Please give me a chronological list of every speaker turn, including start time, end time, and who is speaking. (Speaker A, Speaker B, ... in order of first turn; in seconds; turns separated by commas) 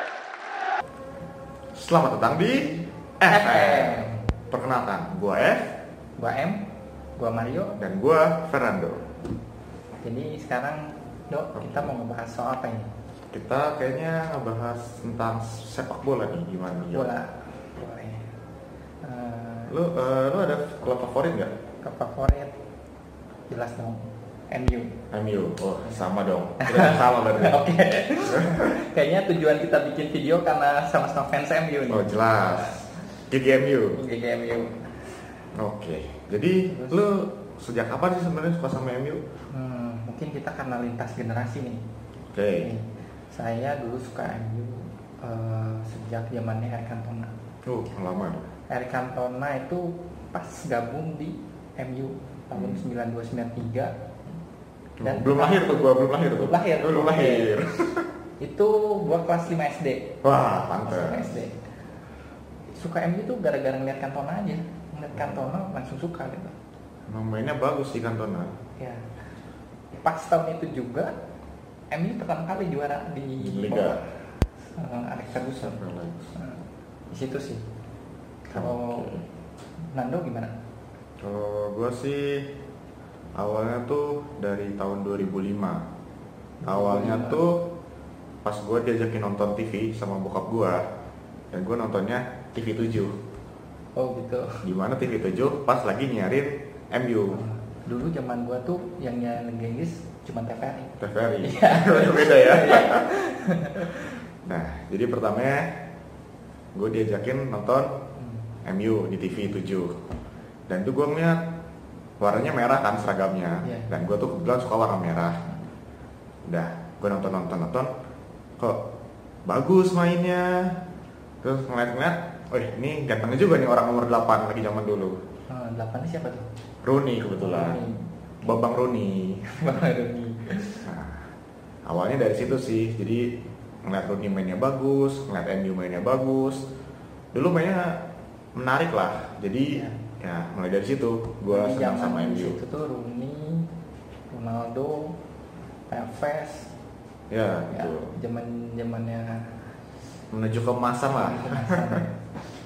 Speaker A: 1.7-5.6, Speaker B: 3.3-4.2, Speaker B: 6.2-6.6, Speaker B: 7.2-7.8, Speaker A: 7.8-9.1, Speaker B: 10.0-12.9, Speaker A: 11.6-11.9, Speaker A: 13.3-17.1, Speaker B: 16.9-18.3, Speaker B: 19.0-19.8, Speaker A: 19.7-21.5, Speaker B: 21.8-22.5, Speaker B: 23.5-24.9, Speaker A: 25.1-27.6, Speaker B: 26.6-32.6, Speaker A: 28.3-28.7, Speaker A: 31.9-34.0, Speaker B: 34.0-34.9, Speaker A: 35.5-39.2, Speaker B: 36.7-37.0, Speaker B: 39.5-41.8, Speaker A: 42.3-42.7, Speaker B: 42.6-47.3, Speaker A: 47.6-48.5, Speaker B: 48.7-53.9, Speaker A: 52.5-52.8, Speaker A: 55.0-58.0, Speaker B: 55.0-57.5, Speaker B: 58.4-60.2, Speaker A: 60.2-61.3, Speaker B: 60.8-61.5, Speaker B: 62.7-66.5, Speaker A: 67.1-68.5, Speaker B: 68.8-69.0, Speaker B: 70.0-71.1, Speaker B: 71.9-74.0, Speaker A: 73.4-74.0, Speaker B: 74.8-75.8, Speaker A: 75.6-76.3, Speaker B: 76.3-77.6, Speaker B: 78.5-79.2, Speaker A: 78.5-79.2, Speaker B: 79.9-80.5, Speaker A: 81.2-82.4, Speaker A: 83.3-85.8, Speaker B: 86.6-87.4, Speaker A: 86.6-87.6, Speaker A: 88.4-90.8, Speaker A: 91.5-93.1, Speaker B: 93.9-94.6, Speaker A: 94.6-97.4, Speaker B: 97.3-104.1, Speaker A: 101.0-103.1, Speaker A: 104.5-105.7, Speaker A: 106.7-107.9, Speaker B: 108.2-108.4, Speaker A: 108.6-110.0, Speaker A: 110.7-111.4, Speaker A: 112.2-115.4, Speaker B: 113.6-113.9, Speaker A: 116.5-117.9, Speaker A: 119.5-120.7, Speaker A: 121.4-125.2, Speaker B: 125.5-126.5, Speaker A: 126.8-127.8, Speaker B: 127.4-128.1, Speaker A: 128.4-129.6, Speaker B: 129.5-130.9, Speaker A: 130.8-131.3, Speaker A: 131.8-133.2, Speaker A: 133.8-136.6, Speaker A: 137.3-138.0, Speaker A: 138.5-142.6, Speaker B: 139.7-140.0, Speaker B: 141.5-143.7, Speaker B: 144.3-145.2, Speaker B: 145.9-146.7, Speaker A: 147.3-148.1, Speaker B: 147.7-149.6, Speaker A: 150.3-152.0, Speaker B: 151.1-152.1